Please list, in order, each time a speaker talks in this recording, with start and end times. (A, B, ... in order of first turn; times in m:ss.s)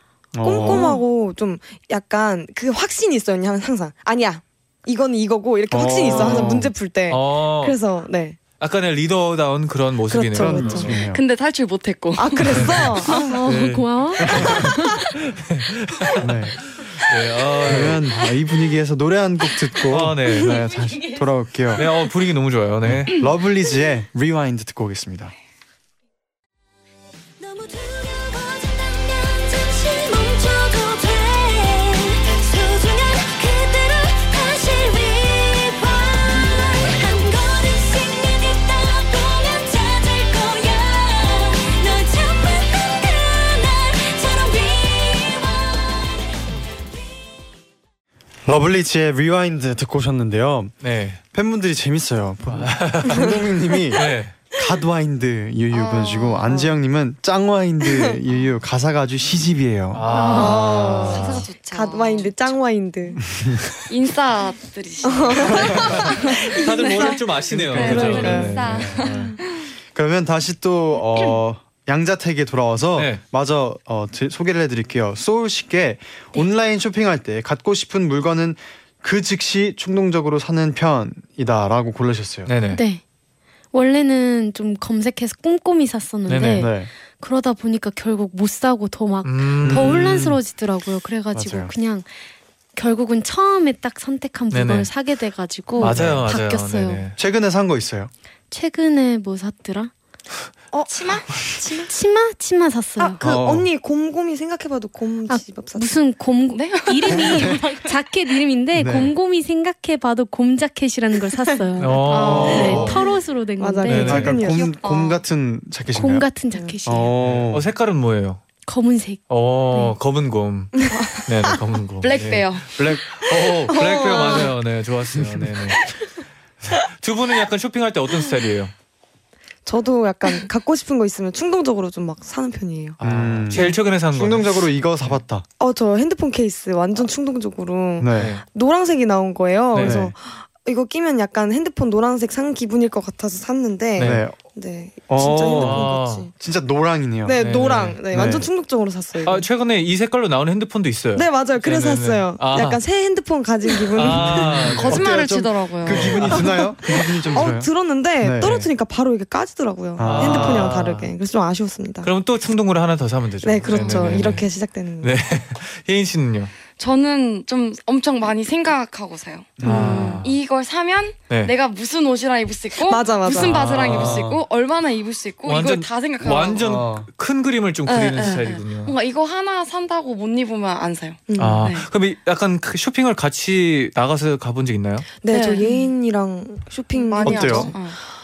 0:00.3-0:01.0 A
0:00.4-0:08.4 B
0:05.7-0:06.7 A
0:06.0-0:07.8 C
0:08.6-0:11.0 C
0:10.1-0:11.0 B
0:10.3-0:11.2 A
0:11.1-0:13.2 D
0:12.2-0:13.4 B
0:12.5-0:12.9 C
0:13.1-0:14.8 E
0:13.5-0:18.0 C
0:14.2-0:14.7 A
0:16.2-0:16.6 A
0:17.6-0:21.8 A
0:19.9-0:20.8 C
0:21.7-0:23.2 C
0:22.8-0:25.3 A
0:27.4-0:46.6 F
0:48.5-0:50.8 A
0:50.8-0:51.2 C
0:51.3-1:00.1 A
0:52.5-0:53.4 C
0:53.9-0:54.4 C
0:55.7-0:56.7 D
0:59.9-1:01.4 C
1:00.1-1:00.6 E
1:00.2-1:03.2 B
1:01.1-1:02.6 D
1:03.3-1:03.6 A
1:03.9-1:09.4 D
1:05.0-1:07.2 B
1:06.5-1:09.4 C
1:07.5-1:09.1 A
1:07.7-1:08.6 B
1:09.9-1:22.5 A
1:13.0-1:13.2 C
1:22.5-1:22.8 C
1:22.7-1:23.0 E
1:23.7-1:32.1 E
1:26.3-1:26.7 C
1:26.6-1:26.9 A
1:29.2-1:30.2 C
1:29.6-1:30.4 A
1:31.3-1:31.7 A
1:32.8-1:37.1 E
1:34.5-1:34.9 C
1:35.8-1:37.2 C
1:35.8-1:36.2 A
1:37.2-1:38.1 A
1:38.5-1:39.9 E
1:40.7-1:41.9 B
1:40.9-1:41.5 D
1:41.9-1:43.2 E
1:43.0-1:46.0 B
1:43.2-1:43.7 A
1:45.3-1:54.6 E
1:46.5-1:47.8 D
1:47.1-1:47.6 A
1:48.8-1:49.1 A
1:51.8-1:53.0 C
1:52.1-1:53.1 B
1:52.1-1:52.7 D
1:52.3-1:53.0 A
1:53.6-1:54.8 B
1:53.9-1:54.3 C
1:54.0-1:56.3 A
1:54.5-1:55.2 D
1:55.9-1:57.2 E
1:56.8-1:57.7 A
1:57.2-1:58.4 C
1:58.6-2:00.0 E
1:59.3-2:05.9 C
2:00.8-2:01.6 B
2:02.0-2:02.7 D
2:03.7-2:04.5 B
2:05.2-2:05.6 A
2:06.7-2:08.7 C
2:09.7-2:13.0 B
2:13.0-2:15.2 C
2:13.0-2:15.4 A
2:13.5-2:13.8 B
2:15.6-2:26.3 B
2:18.0-2:18.4 A
2:18.1-2:18.4 C
2:19.7-2:20.0 C
2:19.8-2:20.1 A
2:24.0-2:24.2 C
2:24.0-2:24.4 A
2:25.1-2:27.4 A
2:25.5-2:26.3 C
2:27.2-2:29.5 B
2:27.4-2:28.4 C
2:28.1-2:28.5 A
2:29.2-2:32.8 C
2:31.2-2:34.3 B
2:34.0-2:35.0 C
2:34.1-2:38.6 A
2:34.8-2:36.5 D
2:35.9-2:36.3 C
2:36.3-2:42.1 B
2:38.4-2:38.7 C
2:40.0-2:40.8 A
2:40.0-2:41.1 C
2:42.0-2:44.5 C
2:43.4-2:45.2 B
2:43.8-2:44.2 A
2:45.0-2:46.5 C
2:46.8-2:56.7 D
2:49.6-2:50.2 A
2:49.6-2:50.3 C
2:49.7-2:50.2 B
2:51.3-2:51.6 C
2:52.9-2:53.6 B
2:53.4-2:54.4 C
2:55.4-2:59.0 C
2:56.6-2:57.1 A
2:57.9-3:01.9 D
3:01.3-3:01.7 B
3:01.4-3:05.1 C
3:05.2-3:07.9 B
3:05.3-3:05.9 D
3:06.9-3:08.0 D
3:07.2-3:07.7 A